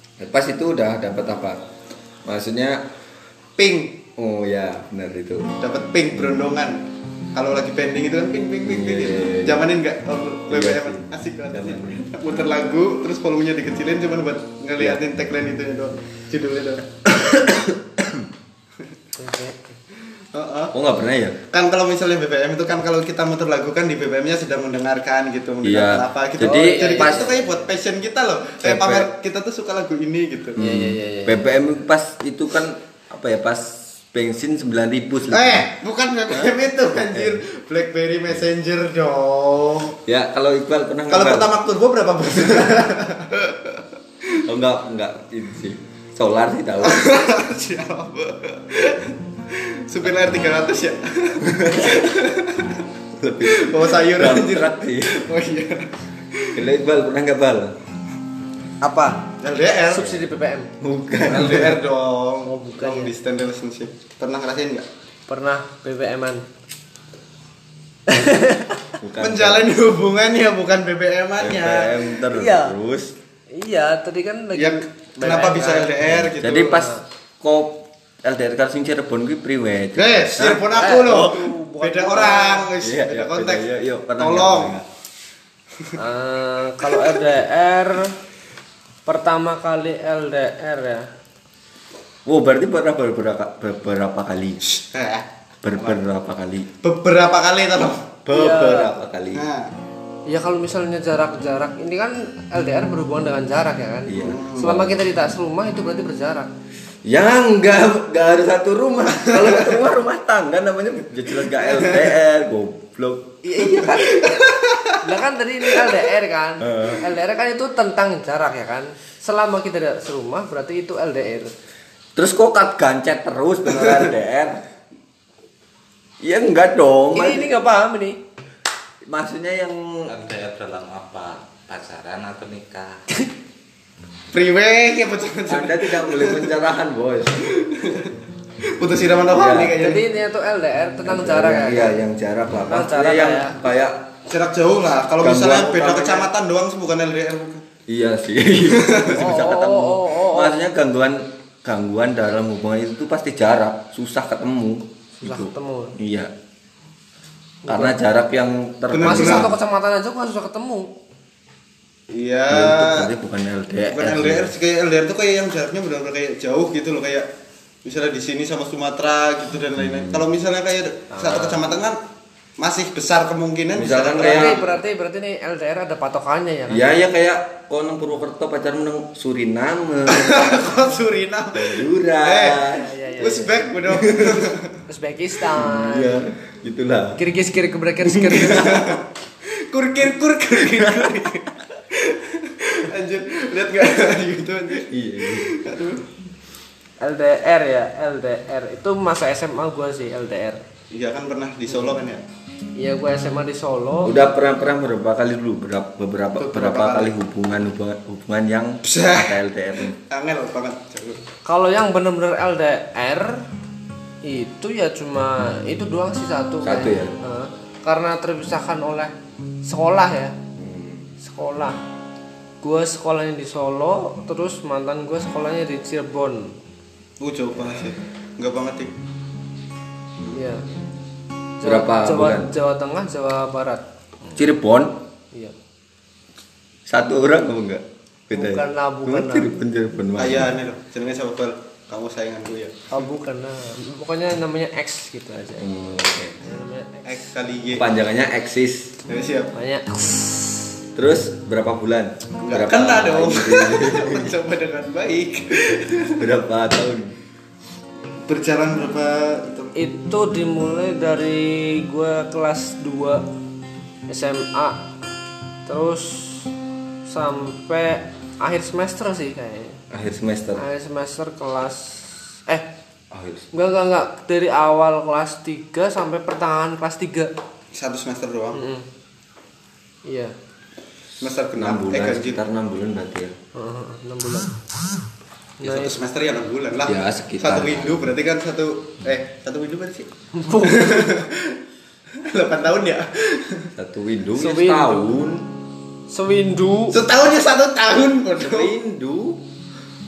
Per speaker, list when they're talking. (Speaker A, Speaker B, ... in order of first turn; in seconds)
Speaker A: 0.2-1.6, 2.2-2.9, 4.2-5.5, 8.7-9.7, 10.5-12.1, 17.2-18.3, 20.7-21.4, 25.6-27.3, 28.6-29.1, 30.6-35.7, 37.1-37.4, 40.1-41.5, 44.4-47.1, 51.5-52.0, 53.2-55.2, 56.5-57.8, 60.0-60.3, 60.8-61.8, 69.0-69.7, 71.4-73.1, 76.1-81.2, 82.8-84.9, 92.3-94.6, 95.6-96.7, 98.3-99.5, 104.1-105.0, 107.0-114.1, 116.6-117.0, 122.2-124.6, 126.2-127.5, 129.1-129.8, 135.5-137.5, 139.3-139.8, 141.1-144.1, 145.2-146.3, 147.9-156.3, 157.7-159.6, 162.5-164.5, 169.8-170.2, 173.8-174.6, 176.7-180.8, 181.5-182.9, 183.9-184.5, 185.6-187.2, 188.0-188.9, 190.7-191.3, 194.9-195.5, 204.0-210.0, 216.6-217.1, 220.6-221.1, 231.6-232.5, 234.3-235.0, 236.9-240.5, 245.6-246.4, 247.7-248.9, 251.0-254.3, 256.2-257.2, 269.9-270.6, 273.1-273.5, 281.6-283.4, 286.9-288.0, 293.7-295.5, 298.4-299.4
Speaker B: 3.6-4.0, 5.6-6.8, 7.3-16.9, 20.3-20.8, 21.5-30.6, 35.3-40.0, 41.1-43.9, 46.8-52.8, 53.4-56.6, 59.2-60.1, 61.2-64.9, 69.2-72.0, 74.5-76.9, 80.0-84.8, 85.8-86.0, 86.8-87.2, 94.7-96.0, 96.8-98.2, 99.3-99.7, 104.2-104.8, 109.2-109.8, 111.6-112.1, 113.8-115.1, 115.7-116.1, 123.8-124.1, 134.3-136.5, 137.4-140.0, 144.3-147.7, 148.7-149.2, 158.9-159.5, 162.1-163.1, 163.9-167.3, 167.8-172.0, 172.6-174.8, 180.1-184.7, 188.5-196.1, 200.9-202.2, 206.4-207.1, 208.8-211.2, 227.2-228.9, 240.2-242.9, 247.1-248.0, 249.1-249.5, 252.4-256.3, 258.3-259.7, 277.7-278.6, 281.2-282.4, 285.6-290.1, 290.6-291.6, 292.1-293.7, 296.9-298.7
Speaker C: 19.2-19.8, 26.4-27.4, 30.6-31.4, 58.8-59.2, 59.9-60.7, 62.5-63.1, 65.3-66.5, 68.1-68.8, 72.3-72.8, 73.5-76.0, 80.7-82.7, 86.0-88.2, 89.1-91.1, 98.3-99.0, 100.3-106.5, 113.5-114.4, 115.0-121.5, 127.1-128.2, 139.7-142.0, 142.7-143.6, 149.1-150.6, 155.2-156.0, 157.7-157.9, 159.0-160.9, 171.1-171.6, 174.1-176.9, 182.7-183.7, 184.9-186.2, 187.2-188.9, 197.0-200.6, 202.8-204.2, 211.5-213.4, 214.2-219.1, 219.6-220.4, 221.2-221.8, 222.6-226.6, 230.3-230.7, 231.6-234.4, 238.3-239.5, 242.9-245.7, 246.4-247.3, 249.5-250.7, 259.8-263.3, 264.1-264.8, 265.7-266.5, 267.1-269.8, 270.6-272.7, 273.5-277.3, 278.5-278.9, 280.1-280.4, 283.6-284.6, 285.6-286.0, 290.3-291.1, 294.4-295.2, 296.1-297.0
Speaker D: 130.1-133.0